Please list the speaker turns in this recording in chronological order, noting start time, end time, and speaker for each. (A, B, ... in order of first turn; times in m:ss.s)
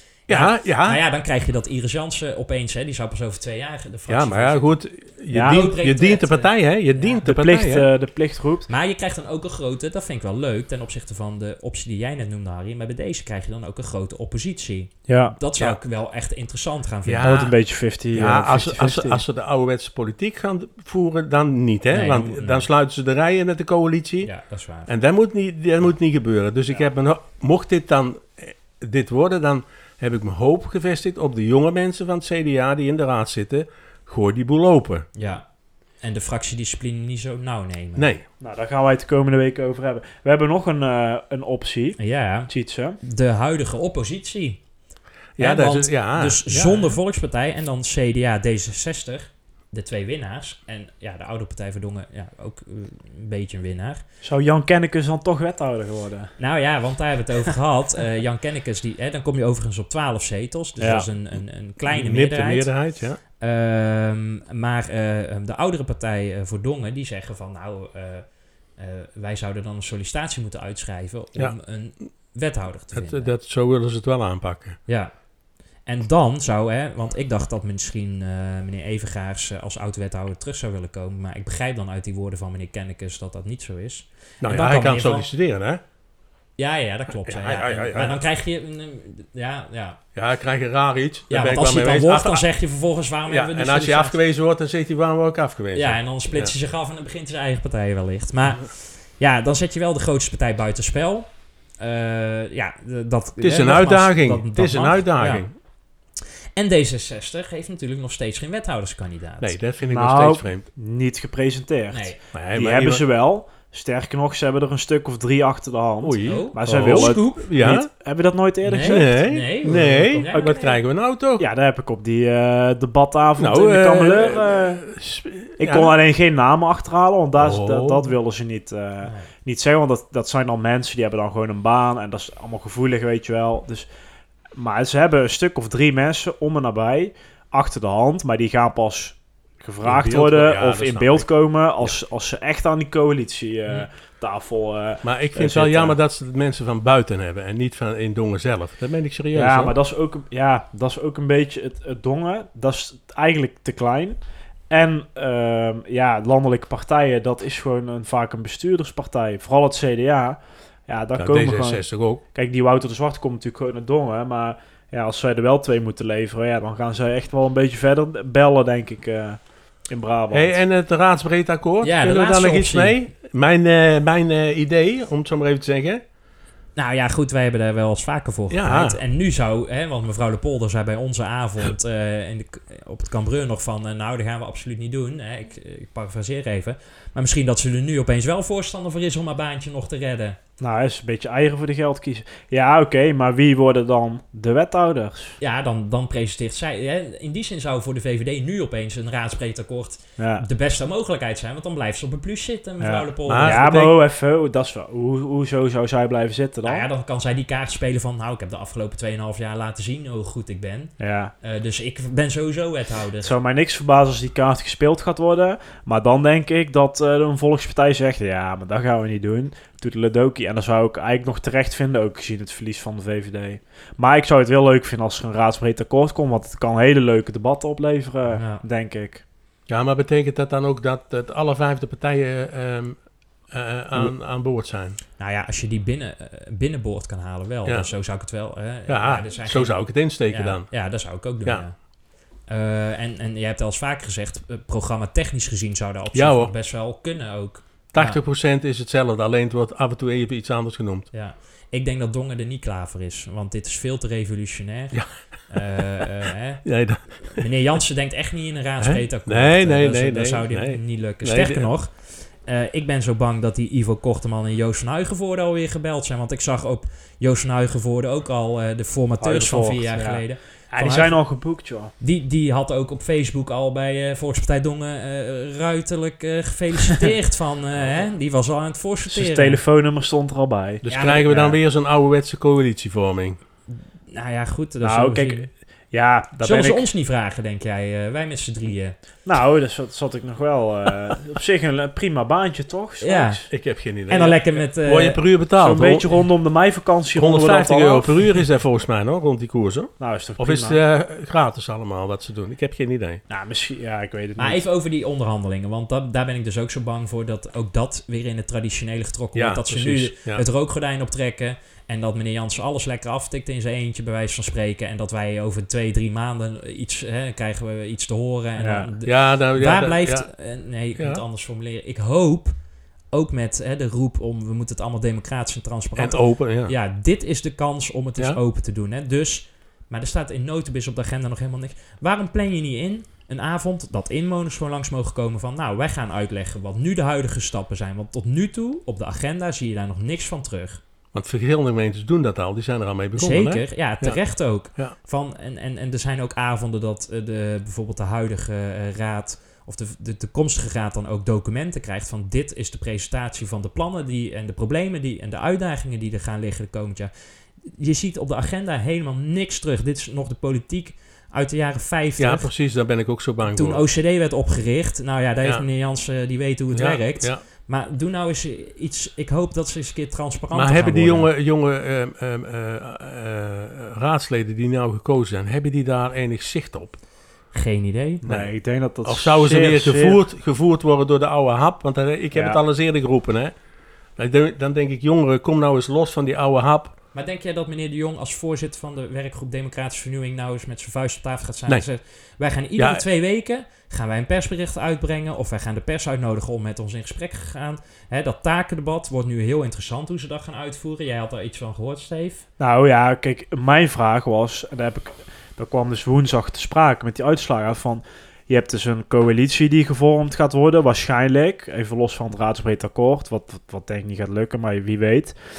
0:00.3-0:01.0 A
0:00.3-0:04.7 B
0:04.1-0:07.9 A
0:05.3-0:05.6 C
0:05.3-0:07.2 B
0:07.2-0:08.7 C
0:08.7-0:17.5 B
0:15.1-0:15.3 C
0:17.0-0:17.6 A
0:17.2-0:19.2 C
0:18.1-0:24.3 A
0:21.9-0:22.7 B
0:24.2-0:24.9 B
0:24.9-0:35.1 A
0:35.1-0:35.4 B
0:36.0-0:38.1 B
0:38.0-0:38.2 A
0:38.4-0:43.0 C
0:42.0-0:42.5 B
0:43.0-0:44.6 B
0:45.4-0:47.0 A
0:45.4-0:54.0 B
0:54.2-0:56.3 C
0:56.4-1:02.7 B
1:00.8-1:01.1 C
1:01.8-1:03.2 A
1:03.4-1:13.3 B
1:12.9-1:14.8 A
1:14.9-1:15.1 B
1:15.8-1:25.3 B
1:24.4-1:25.8 A
1:26.6-1:30.0 B
1:27.2-1:28.2 A
1:30.1-1:32.4 A
1:31.3-1:34.2 B
1:33.3-1:36.5 A
1:35.7-1:45.5 B
1:43.4-1:45.5 A
1:46.6-1:49.6 B
1:49.4-1:50.6 A
1:49.9-1:59.3 C
1:51.9-1:52.2 B
1:52.3-1:53.0 A
1:56.0-1:57.9 A
1:56.2-1:57.5 B
1:58.6-2:00.8 B
1:58.8-2:01.4 A
2:00.3-2:00.7 C
2:01.4-2:04.8 C
2:03.4-2:05.9 A
2:05.6-2:13.9 C
2:07.4-2:08.1 A
2:09.0-2:09.3 B
2:14.5-2:26.0 C
2:19.8-2:21.3 A
2:25.0-2:29.8 A
2:29.3-2:34.2 C
2:34.7-2:50.6 C
2:41.1-2:42.2 A
2:50.3-2:56.0 A
2:51.8-2:53.0 B
2:56.8-3:10.4 B
2:58.5-2:59.0 A
3:10.6-3:15.4 C
3:15.4-3:23.7 B
3:20.2-3:20.4 C
3:22.8-3:26.9 C
3:23.3-3:24.0 A
3:26.6-3:33.3 B
3:31.0-3:31.3 C
3:33.2-3:49.2 C
3:48.3-3:48.6 B
3:49.7-3:53.0 A
3:53.5-3:55.0 A
3:55.2-4:01.8 B
3:58.9-4:00.7 A
4:02.5-4:08.2 B
4:06.1-4:06.5 A
4:07.9-4:11.1 A
4:11.1-4:16.6 B
4:16.6-4:17.5 A
4:17.2-4:31.2 B
4:18.8-4:21.7 A
4:29.2-4:31.9 C
4:32.0-4:39.6 B
4:37.8-4:38.0 A
4:39.1-4:41.4 C
4:40.8-4:43.4 A
4:40.9-4:41.6 B
4:44.1-4:45.5 B
4:44.8-4:46.8 C
4:46.4-4:49.0 B
4:49.2-4:53.5 C
4:53.0-4:53.5 B
4:53.5-4:56.1 A
4:54.1-4:55.2 B
4:55.6-4:58.3 C
4:57.1-5:03.2 A
5:00.0-5:00.8 C
5:03.3-5:04.6 C
5:04.4-5:22.5 B
5:09.3-5:10.4 A
5:18.6-5:18.9 C
5:19.0-5:20.3 A
5:21.0-5:21.2 A
5:23.1-5:40.8 B
5:26.0-5:26.7 A
5:41.1-5:44.2 A
5:43.1-5:57.1 B
5:57.6-6:02.5 B
6:02.2-6:03.8 A
6:03.4-6:11.3 B
6:06.7-6:07.4 A
6:10.5-6:17.0 A
6:17.5-6:18.2 B
6:18.2-6:18.5 A
6:18.2-6:20.2 C
6:19.0-6:23.5 A
6:22.3-6:22.6 C
6:24.2-6:26.9 A
6:27.1-6:42.4 B
6:32.8-6:33.0 A
6:42.6-6:55.4 C